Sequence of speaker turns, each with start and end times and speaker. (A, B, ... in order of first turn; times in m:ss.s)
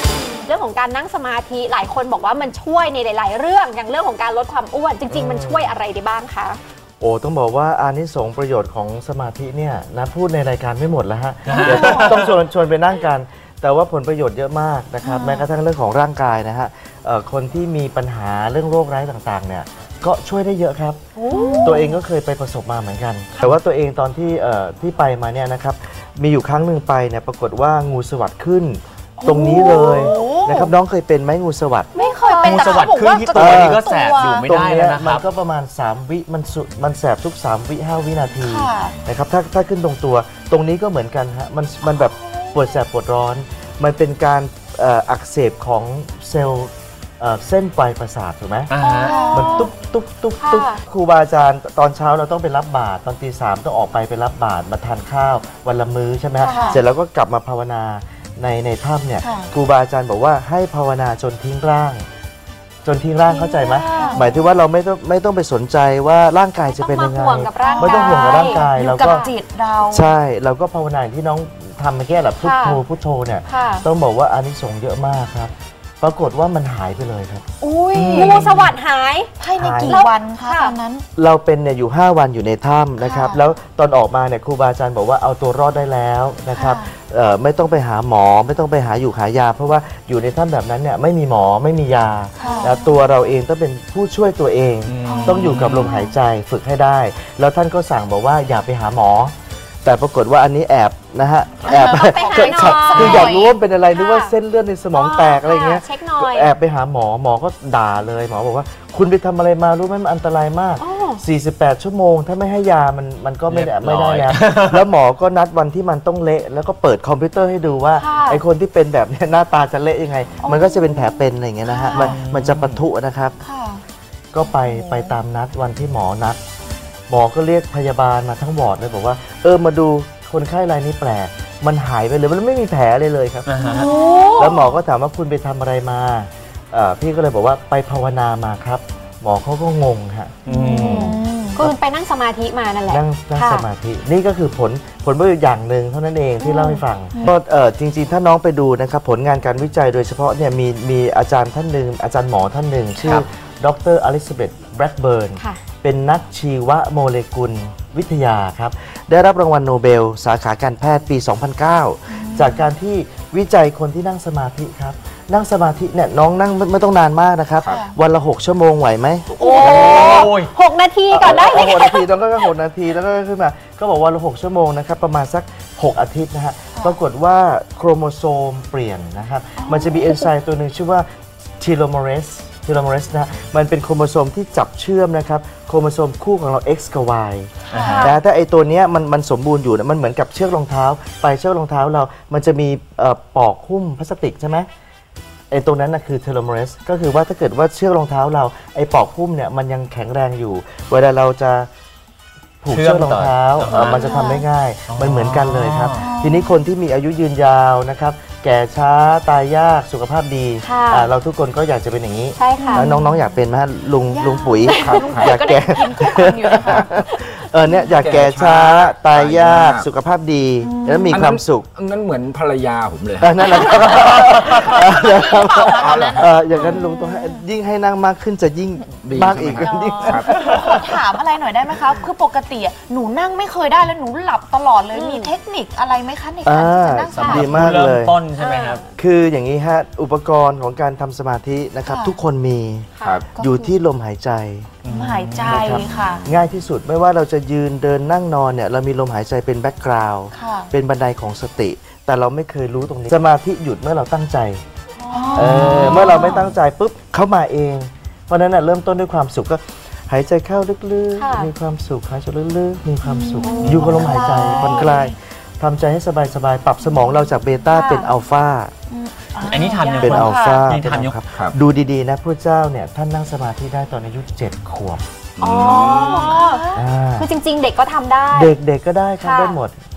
0:00.4-0:06.6 A
0:05.1-0:05.8 B
0:07.0-0:21.0 B
0:11.5-0:12.3 C
0:11.5-0:12.1 D
0:15.0-0:15.5 D
0:21.2-0:22.0 D
0:21.3-0:21.8 A
0:21.6-0:31.9 B
0:29.2-0:30.7 D
0:31.9-0:34.4 D
0:31.9-0:33.3 A
0:32.4-0:35.2 C
0:33.3-0:48.7 B
0:38.4-0:39.0 D
0:41.8-0:42.8 D
0:48.7-0:49.3 C
0:48.8-0:49.7 D
0:49.0-0:49.7 A
0:49.3-1:02.0 B
0:50.4-0:50.8 A
0:56.4-0:56.8 D
0:56.5-0:56.7 A
0:59.2-0:59.5 D
1:02.8-1:09.3 B
1:03.3-1:04.4 D
1:03.9-1:04.3 A
1:06.7-1:09.3 A
1:07.6-1:10.1 D
1:09.8-1:17.4 B
1:12.4-1:12.8 A
1:13.5-1:13.9 A
1:17.6-1:18.3 D
1:17.9-1:18.4 C
1:18.1-1:19.3 A
1:19.4-1:21.0 D
1:19.6-1:20.0 B
1:19.9-1:20.8 A
1:21.2-1:39.3 B
1:23.0-1:23.4 D
1:26.5-1:26.9 D
1:32.4-1:32.8 D
1:32.4-1:32.8 A
1:34.9-1:36.0 C
1:35.0-1:36.1 D
1:39.8-2:03.4 B
1:41.6-1:44.3 A
1:41.7-1:43.5 D
1:44.9-1:46.5 A
1:50.8-1:51.2 A
1:53.5-1:54.8 C
1:58.0-1:58.4 A
2:00.4-2:01.3 D
2:01.7-2:02.2 A
2:01.8-2:02.1 D
2:02.0-2:02.8 C
2:03.4-2:03.8 D
2:04.3-2:06.4 B
2:04.5-2:05.2 D
2:07.1-2:13.4 B
2:13.4-2:13.9 C
2:13.6-2:14.7 D
2:13.6-2:14.6 A
2:14.4-2:20.4 B
2:20.4-2:21.6 D
2:20.4-2:23.6 A
2:20.6-2:21.0 C
2:22.9-2:50.3 B
2:26.4-2:26.8 A
2:42.1-2:42.6 D
2:47.7-2:47.9 D
2:49.4-2:52.1 A
2:49.5-2:49.8 D
2:49.6-2:50.5 C
2:51.1-3:01.0 B
2:59.6-3:00.3 D
3:01.6-3:14.7 B
3:07.7-3:08.0 C
3:07.7-3:08.1 D
3:07.8-3:08.2 A
3:15.5-3:21.7 B
3:22.6-3:41.7 B
3:22.7-3:24.1 C
3:23.7-3:24.3 A
3:23.9-3:24.4 D
3:24.9-3:26.0 C
3:25.9-3:26.6 D
3:30.6-3:31.1 A
3:32.4-3:32.9 A
3:32.6-3:33.2 D
3:34.1-3:36.9 D
3:34.6-3:35.0 A
3:35.1-3:35.4 E
3:37.8-3:39.9 E
3:40.6-3:41.2 D
3:41.1-3:44.2 E
3:43.2-3:50.9 B
3:44.0-3:47.4 D
3:45.7-3:46.3 E
3:49.0-3:50.8 E
3:49.6-3:57.6 D
3:54.9-3:55.3 A
3:56.4-3:58.2 B
3:57.1-3:58.8 C
3:57.1-3:57.4 A
3:58.4-3:58.8 A
3:59.0-4:04.8 B
4:01.8-4:02.2 D
4:03.0-4:03.2 A
4:03.0-4:03.3 E
4:03.3-4:03.7 D
4:04.8-4:05.7 C
4:04.9-4:06.3 D
4:05.5-4:14.6 B
4:10.3-4:10.7 D
4:15.0-4:16.5 D
4:15.3-4:28.7 B
4:15.5-4:15.9 C
4:21.2-4:21.5 A
4:23.0-4:25.1 D
4:23.4-4:24.9 A
4:23.6-4:24.8 C
4:26.9-4:27.2 D
4:27.7-4:28.1 A
4:28.9-4:30.6 D
4:29.4-4:31.2 C
4:30.0-4:35.0 B
4:31.3-4:31.6 E
4:35.4-4:36.3 E
4:35.4-4:38.5 A
4:35.6-4:36.8 D
4:36.7-4:37.3 B
4:38.3-4:39.7 B
4:39.2-4:39.6 A